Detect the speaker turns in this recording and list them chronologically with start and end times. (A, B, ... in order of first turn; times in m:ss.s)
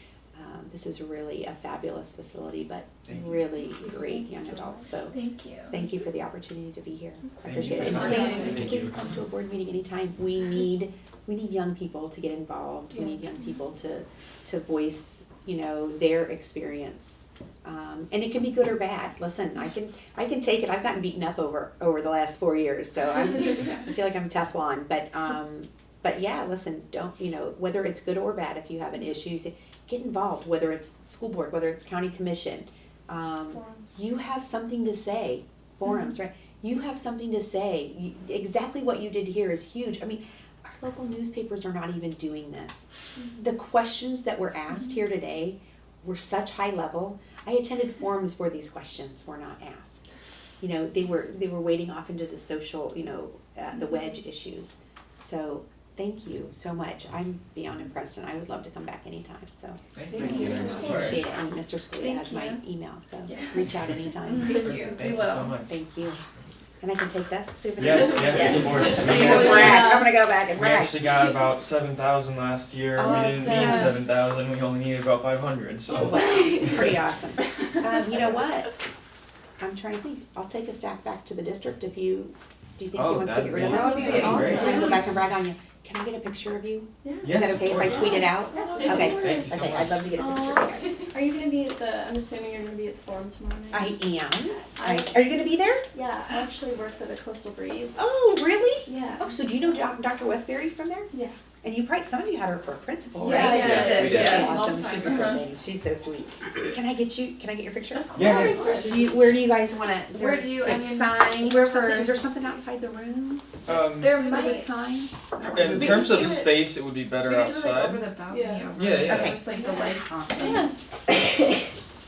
0:00.3-0:50.1 A
0:03.1-0:03.4 B
0:03.7-0:05.7 C
0:07.4-0:09.2 B
0:07.8-0:08.6 C
0:07.8-0:08.6 D
0:13.0-0:13.3 C
0:50.6-1:04.8 A
1:00.0-1:01.2 B
1:00.2-1:01.2 C
1:00.2-1:01.2 D
1:02.0-1:02.6 C
1:04.3-1:05.2 C
1:04.4-1:05.5 D
1:04.6-1:05.7 B
1:05.6-1:06.3 A
1:06.8-1:11.0 A
1:07.8-1:09.9 B
1:08.3-1:10.1 C
1:08.8-1:09.4 D
1:10.5-1:16.8 B
1:13.0-1:14.0 A
1:13.4-1:13.9 C
1:16.0-1:18.7 A
1:19.6-1:31.0 A
1:22.9-1:24.8 B
1:23.6-1:25.0 C
1:23.7-1:25.0 D
1:27.0-1:29.5 C
1:27.2-1:28.3 B
1:28.5-1:29.4 D
1:28.9-1:30.0 B
1:30.2-1:35.2 C
1:33.7-1:35.9 A
1:35.9-1:38.0 C
1:38.0-1:41.1 A
1:38.9-1:39.4 C
1:41.6-1:56.4 A
1:43.2-1:45.4 C
1:43.2-1:45.4 D
1:43.4-1:44.6 B
1:48.0-1:49.1 C
1:48.1-1:48.7 B
1:48.2-1:49.1 D
1:50.2-1:52.0 D
1:51.2-1:52.1 C
1:53.7-1:54.3 B
1:54.0-1:54.7 C
1:54.2-1:54.6 D
1:55.5-1:58.1 B
1:55.7-1:56.6 D
1:57.2-2:00.7 D
1:58.3-1:58.7 C
1:58.8-1:59.4 B
1:58.8-2:00.7 A
1:59.5-2:00.9 C